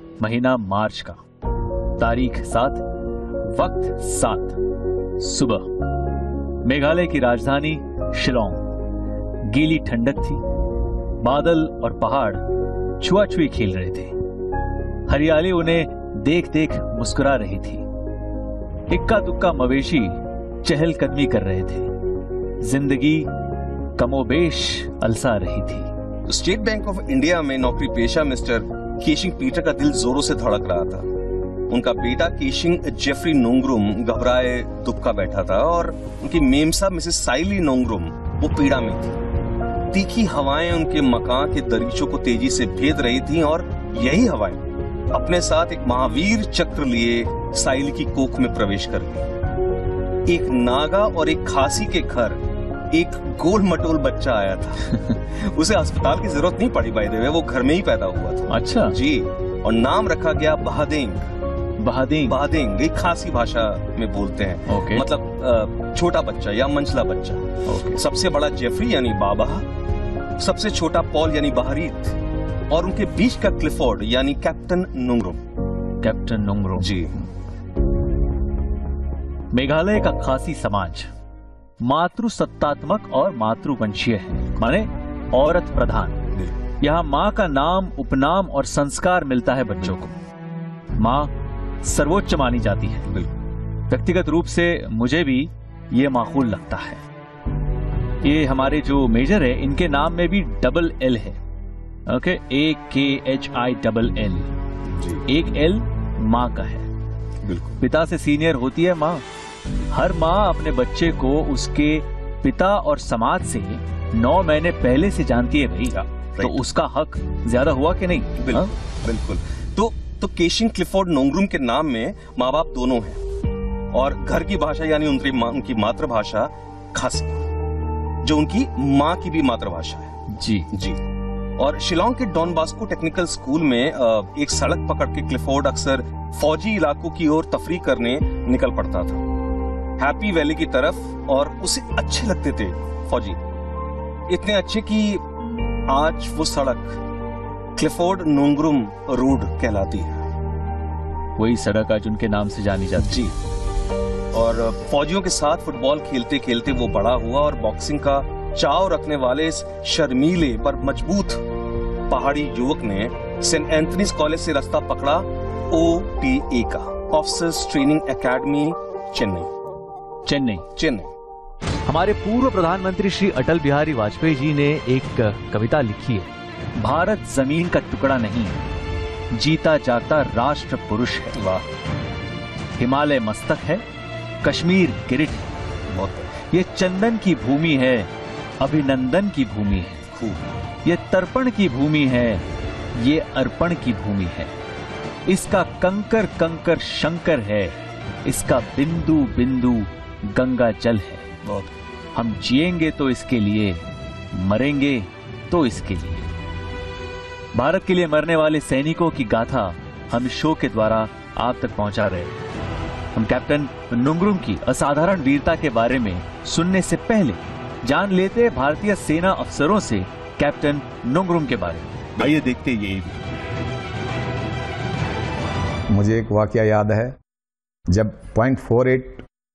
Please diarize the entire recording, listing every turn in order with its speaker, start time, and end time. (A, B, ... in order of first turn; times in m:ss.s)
0:00.2-0:01.2 A
0:02.0-0:02.8 A
0:03.4-0:04.6 A
0:05.2-0:05.7 A
0:06.6-0:08.6 A
0:09.4-0:10.4 A
0:11.2-0:12.4 A
0:13.0-0:14.1 A
0:15.1-0:17.8 A
0:18.9-0:21.9 A
0:22.6-0:23.3 A
0:24.0-0:25.9 A
0:26.3-0:31.1 B
0:31.7-0:39.2 B
0:39.9-0:49.3 B
0:50.3-0:52.4 B
0:52.9-1:01.3 B
0:54.9-0:55.2 A
0:58.5-0:59.0 A
1:01.8-1:02.4 A
1:02.3-1:09.6 B
1:04.7-1:05.0 A
1:07.6-1:08.0 A
1:10.4-1:12.1 B
1:12.7-1:15.4 B
1:16.0-1:16.9 A
1:16.8-1:17.1 B
1:19.5-1:21.1 A
1:21.8-1:26.2 A
1:26.8-1:30.1 A
1:31.0-1:31.3 A
1:31.8-1:33.1 A
1:33.9-1:37.0 A
1:38.2-1:41.4 A
1:42.1-1:44.5 A
1:44.9-1:45.2 B
1:45.3-1:46.9 A
1:47.4-1:47.8 B
1:47.8-1:49.2 A
1:49.9-1:58.7 A
1:55.9-1:56.6 B
1:58.4-2:03.2 B
2:03.9-2:07.4 B
2:08.2-2:10.1 B
2:10.3-2:10.7 A
2:10.7-2:11.0 B
2:11.6-2:19.2 B
2:20.0-2:23.4 B
2:24.3-2:25.2 B
2:25.9-2:27.0 B
2:27.8-2:30.2 B
2:31.4-2:33.3 A
2:33.0-2:33.3 B
2:34.3-2:41.4 B
2:42.1-2:49.5 B
2:50.2-2:50.6 A
2:50.8-2:51.1 B
2:51.9-2:58.6 A
2:59.3-3:01.4 A
3:01.3-3:01.6 B
3:02.8-3:03.8 A
3:04.4-3:05.5 A
3:05.9-3:06.3 B
3:06.5-3:08.1 A
3:08.6-3:10.0 A
3:10.1-3:10.4 B
3:10.8-3:12.4 A
3:13.0-3:14.5 A
3:15.3-3:21.3 A
3:21.4-3:21.7 B
3:22.1-3:26.2 A
3:27.5-3:32.4 A
3:33.1-3:43.2 A
3:45.9-3:47.2 C
3:47.9-3:49.2 C